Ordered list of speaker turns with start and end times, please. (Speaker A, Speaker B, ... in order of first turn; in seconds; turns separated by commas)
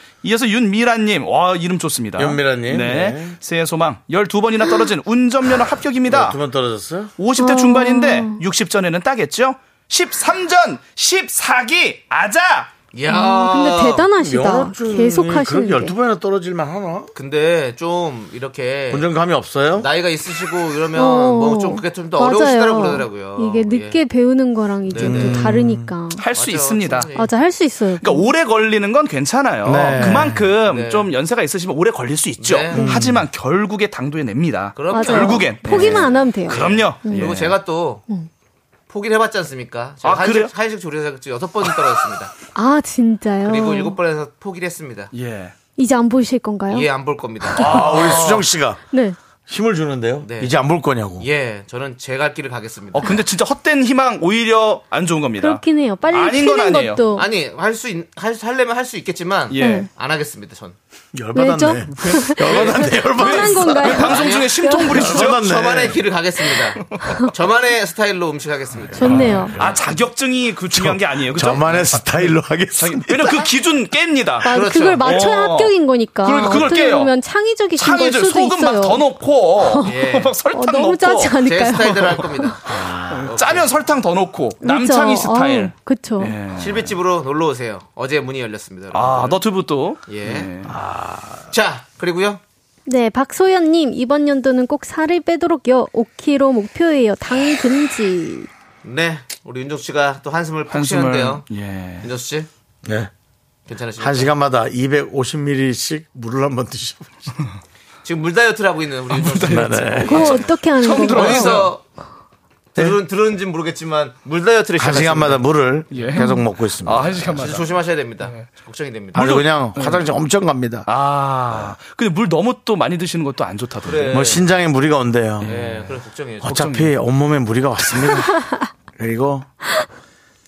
Speaker A: 0.2-6.4, Speaker B: 2.2-3.4, Speaker B: 6.1-7.1, Speaker A: 7.2-12.8, Speaker C: 7.4-8.4, Speaker D: 12.9-14.1, Speaker C: 13.1-15.9, Speaker B: 14.2-17.1, Speaker D: 17.1-19.1, Speaker B: 18.9-19.9, Speaker D: 19.8-24.0, Speaker C: 20.9-26.2, Speaker D: 24.9-25.5, Speaker B: 25.0-25.9, Speaker A: 26.1-27.1, Speaker D: 26.3-27.3, Speaker C: 27.1-28.3, Speaker A: 28.0-37.6, Speaker B: 29.6-30.4, Speaker C: 30.0-30.3, Speaker D: 30.6-31.1, Speaker D: 32.4-32.8, Speaker B: 32.7-33.2, Speaker C: 32.8-33.0, Speaker D: 34.8-38.0, Speaker C: 34.9-37.4, Speaker D: 38.9-42.3, Speaker A: 40.0-40.5, Speaker C: 42.5-44.0, Speaker D: 43.5-45.1, Speaker A: 45.1-45.6, Speaker C: 45.8-46.9, Speaker D: 46.7-48.3, Speaker B: 47.6-48.8, Speaker A: 47.6-48.5, Speaker C: 47.6-47.9, Speaker C: 48.8-49.2, Speaker B: 49.5-51.3, Speaker D: 50.2-50.6, Speaker D: 51.2-53.1, Speaker A: 52.9-57.1, Speaker C: 55.4-57.3, Speaker D: 57.2-60.8, Speaker A: 59.5-59.9, Speaker C: 59.6-59.9, Speaker B: 61.1-64.1, Speaker C: 61.4-65.0, Speaker A: 61.9-65.9, Speaker D: 62.5-62.8, Speaker D: 63.8-69.6, Speaker B: 64.9-66.0, Speaker C: 69.0-69.5, Speaker A: 69.0-77.2, Speaker B: 69.0-69.8, Speaker B: 70.7-73.5, Speaker C: 74.4-79.0, Speaker D: 74.5-75.1, Speaker A: 77.8-82.2, Speaker C: 79.6-82.5, Speaker D: 79.8-80.3, Speaker D: 81.4-83.7, Speaker B: 82.7-83.3, Speaker A: 83.1-86.9, Speaker C: 84.6-86.4, Speaker D: 86.6-89.4, Speaker A: 88.9-90.8, Speaker D: 90.1-90.5, Speaker B: 90.7-91.4, Speaker D: 91.5-92.4, Speaker C: 92.9-98.5, Speaker D: 98.8-101.5, Speaker A: 100.7-102.1, Speaker D: 102.0-102.5, Speaker B: 102.8-103.1, Speaker D: 103.7-104.3, Speaker B: 104.0-107.4, Speaker D: 108.0-111.8, Speaker A: 109.1-111.8, Speaker B: 109.3-110.4, Speaker C: 110.0-111.7, Speaker D: 112.7-115.5, Speaker B: 114.8-117.4, Speaker A: 115.9-118.5, Speaker D: 117.3-119.3, Speaker A: 119.2-120.1, Speaker B: 119.2-120.9, Speaker A: 120.9-124.4, Speaker D: 123.8-124.5, Speaker B: 124.1-125.5, Speaker A: 125.4-127.0, Speaker D: 125.4-126.6, Speaker B: 126.4-128.4, Speaker C: 128.1-128.6, Speaker B: 128.9-129.5